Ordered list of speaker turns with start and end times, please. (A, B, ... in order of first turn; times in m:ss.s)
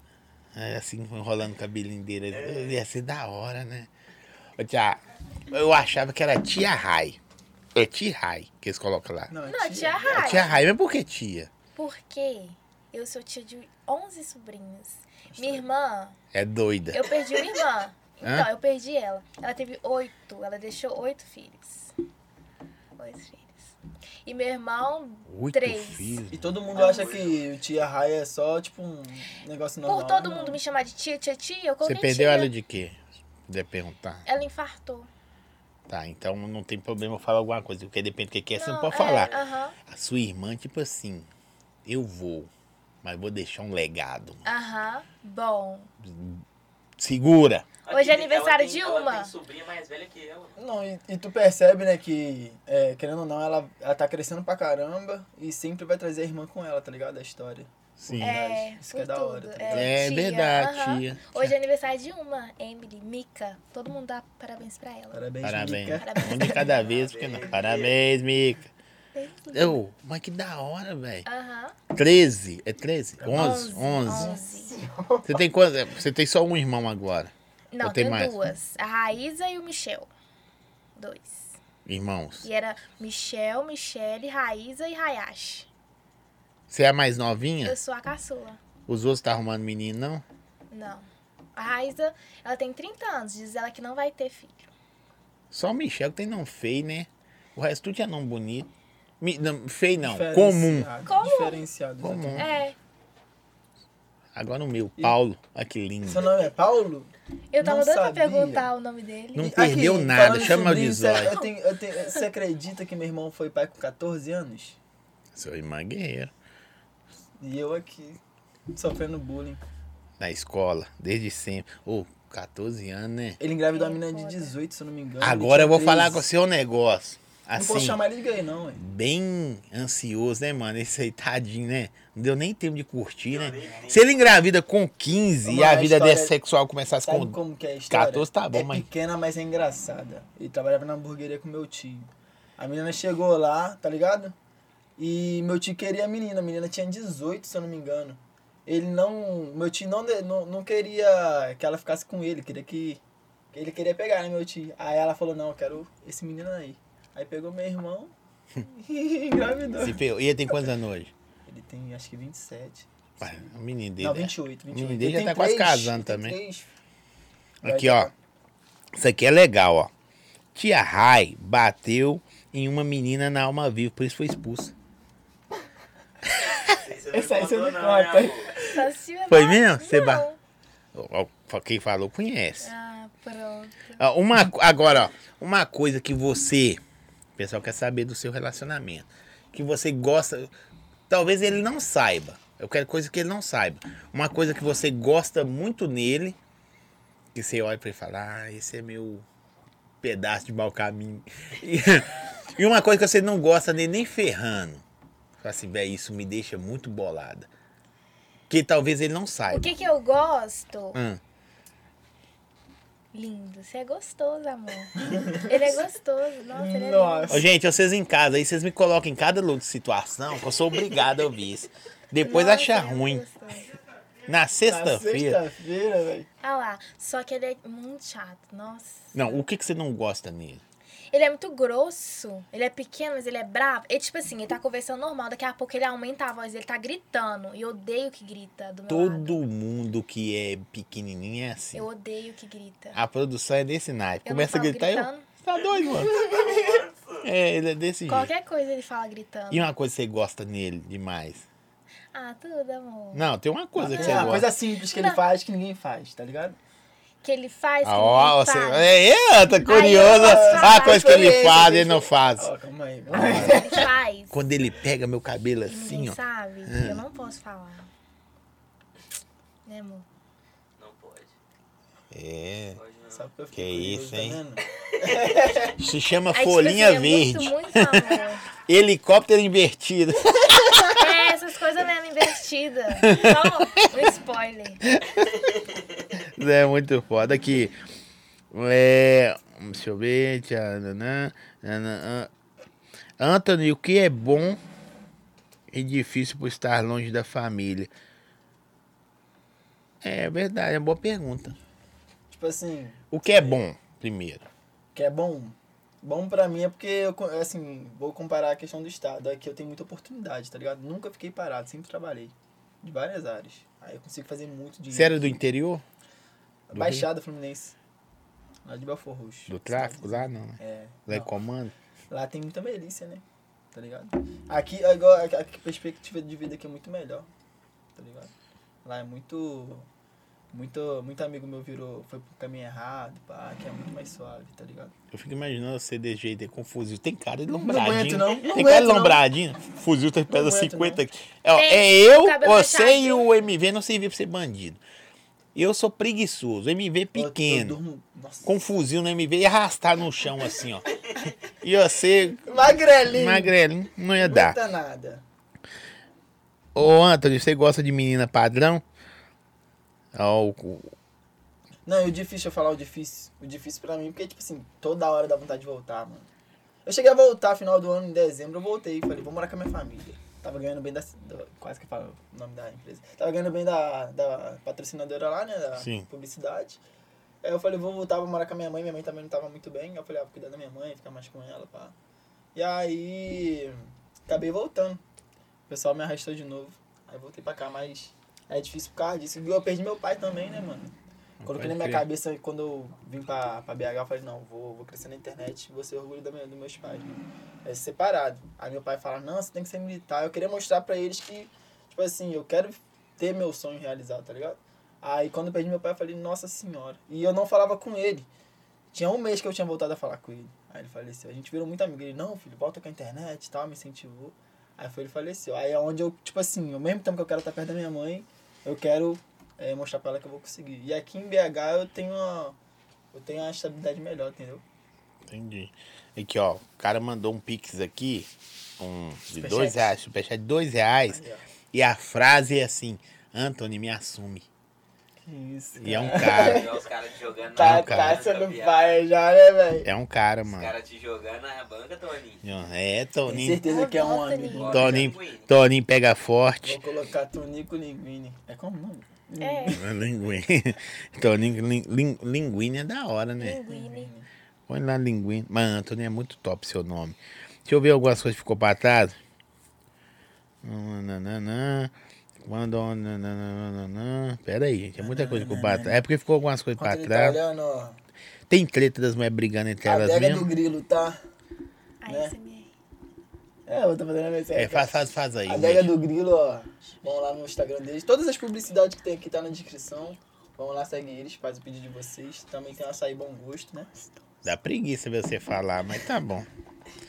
0:00.5-0:03.9 A
0:02.3-0:02.7 B
0:04.6-0:05.0 A
0:05.5-0:07.2 A
0:07.7-0:09.3 A
0:09.3-0:10.6 C
0:09.4-0:10.5 D
0:10.1-0:11.5 A
0:11.8-0:16.2 D
0:15.3-0:15.6 C
0:16.3-0:17.1 A
0:16.9-0:21.9 D
0:18.2-0:18.5 A
0:23.0-0:26.2 D
0:25.3-0:26.6 A
0:26.3-0:30.6 C
0:26.7-0:27.4 B
0:26.7-0:27.1 D
0:29.8-0:32.5 D
0:31.8-0:34.2 A
0:34.2-0:35.1 D
0:35.9-0:39.3 A
0:38.5-0:39.8 D
0:38.9-0:39.4 B
0:39.8-0:41.3 A
0:41.8-0:42.5 A
0:43.0-0:44.4 A
0:44.4-0:45.9 D
0:46.0-0:46.4 A
0:47.0-0:47.7 A
0:47.8-0:50.6 B
0:47.9-0:49.3 D
0:50.6-1:00.0 C
0:58.0-0:58.4 A
0:58.2-1:05.3 D
0:59.7-1:01.5 A
1:05.1-1:06.7 C
1:05.4-1:08.7 A
1:06.0-1:06.6 D
1:06.8-1:07.9 B
1:09.1-1:09.8 D
1:09.5-1:11.2 A
1:11.2-1:11.8 D
1:11.9-1:14.4 A
1:13.2-1:15.4 C
1:13.3-1:14.8 D
1:15.2-1:18.3 A
1:17.7-1:20.1 D
1:21.0-1:21.5 D
1:21.8-1:22.4 A
1:22.4-1:25.7 D
1:26.7-1:27.8 A
1:27.6-1:28.6 D
1:28.9-1:30.2 A
1:30.7-1:34.7 D
1:35.5-1:40.9 A
1:40.0-1:42.6 C
1:41.0-1:41.7 D
1:42.0-1:42.5 A
1:42.4-1:42.8 D
1:44.3-1:46.3 A
1:46.0-1:48.7 C
1:47.5-1:49.5 D
1:49.3-1:51.4 A
1:49.4-1:54.8 C
1:55.3-1:56.3 A
1:57.4-1:58.2 C
1:58.7-1:59.6 C
2:00.2-2:03.4 A
2:03.4-2:06.3 C
2:03.7-2:04.5 D
2:05.2-2:08.0 A
2:07.6-2:08.8 C
2:08.8-2:17.4 A
2:13.3-2:14.0 B
2:15.4-2:16.3 C
2:17.0-2:24.3 C
2:17.9-2:18.9 A
2:25.0-2:33.0 C
2:33.5-2:40.5 C
2:39.8-2:41.1 A
2:41.4-2:43.4 C
2:43.2-2:46.4 A
2:44.0-2:46.7 C
2:47.6-2:48.1 C
2:47.6-2:48.1 A
2:49.0-2:49.9 A
2:50.5-2:54.7 A
2:56.3-2:56.8 A
2:56.6-2:58.6 B
2:57.1-2:58.9 C
2:58.6-3:00.4 D
2:59.3-3:00.2 A
3:00.9-3:02.7 A
3:02.6-3:04.0 D
3:04.0-3:06.8 A
3:07.4-3:10.5 A
3:11.1-3:16.4 A
3:17.3-3:19.2 A
3:20.0-3:24.8 A
3:25.4-3:27.5 A
3:28.5-3:29.6 A
3:29.5-3:31.0 D
3:30.9-3:31.2 A
3:33.1-3:37.4 D
3:35.0-3:35.8 C
3:36.5-3:37.4 C
3:37.3-3:43.2 A
3:42.2-3:43.7 D
3:44.2-3:45.4 A
3:44.6-3:46.3 C
3:46.4-3:49.4 D
3:49.1-3:50.6 A
3:51.1-3:59.4 D
3:58.9-4:01.8 A
4:01.7-4:03.0 D
4:02.9-4:08.3 A
4:04.2-4:05.3 D
4:05.6-4:07.2 B
4:08.1-4:09.7 D
4:09.5-4:11.4 A
4:12.1-4:13.2 D
4:13.1-4:14.5 A
4:13.8-4:16.6 C
4:13.9-4:15.2 D
4:17.2-4:18.9 D
4:17.8-4:22.5 A
4:19.6-4:21.4 D
4:19.8-4:23.9 C
4:23.1-4:27.0 A
4:23.1-4:24.4 D
4:25.6-4:27.9 D
4:29.6-4:30.0 D
4:30.8-4:31.3 B
4:32.1-4:32.8 A
4:32.7-4:33.3 B
4:33.1-4:35.7 C
4:33.5-4:34.4 A
4:35.0-4:35.3 B
4:35.8-4:41.1 A
4:36.3-4:38.4 D
4:40.9-4:45.0 D
4:43.0-4:43.8 A
4:44.9-4:45.4 A
4:46.1-4:47.7 A
4:48.5-4:52.3 A
4:53.2-4:54.6 A
4:55.7-4:57.9 A
5:00.0-5:01.5 A
5:02.3-5:03.6 C
5:03.1-5:04.4 A
5:04.9-5:15.4 C
5:14.9-5:15.8 A
5:16.7-5:17.7 C
5:16.7-5:17.1 A
5:18.6-5:21.3 C
5:19.5-5:21.7 A
5:22.1-5:27.3 C
5:27.9-5:28.3 C
5:28.8-5:29.9 C
5:30.5-5:34.9 C
5:35.1-5:44.8 A
5:37.5-5:39.2 C
5:40.3-5:41.0 C
5:41.5-5:43.3 D
5:45.5-5:47.8 A
5:47.1-5:48.6 C
5:48.4-5:51.0 A
5:51.6-5:54.6 A
5:52.4-5:53.5 C
5:54.2-5:55.2 C
5:56.7-5:58.8 A
6:00.1-6:00.9 A
6:01.8-6:06.3 C
6:06.8-6:16.8 C
6:15.8-6:16.0 A
6:17.4-6:21.9 C
6:22.5-6:25.0 C
6:25.7-6:48.3 C
6:31.4-6:32.1 A
6:48.9-7:02.6 C
7:03.1-7:04.6 C
7:05.3-7:11.2 A
7:09.4-7:09.9 C
7:11.1-7:11.4 C
7:11.7-7:14.4 A
7:15.2-7:16.8 C
7:15.8-7:16.7 A
7:16.1-7:19.1 B
7:17.5-7:19.9 C
7:17.6-7:18.2 A
7:19.8-7:20.7 A
7:20.4-7:22.4 B
7:22.4-7:23.6 A
7:23.2-7:25.1 C
7:23.6-7:24.7 D
7:24.5-7:25.5 B
7:24.7-7:26.8 A
7:26.6-7:29.9 C
7:29.4-7:29.8 D
7:29.7-7:33.6 A
7:33.4-7:34.1 D
7:33.7-7:34.3 C
7:34.7-7:39.1 A
7:40.6-7:47.4 A
7:45.0-7:46.0 C
7:46.8-7:48.0 C
7:48.5-7:50.5 A
7:49.8-7:51.2 C
7:52.0-7:52.7 D
7:52.1-7:52.3 C
7:53.6-8:04.1 C
7:54.5-7:55.9 A
8:04.4-8:06.5 A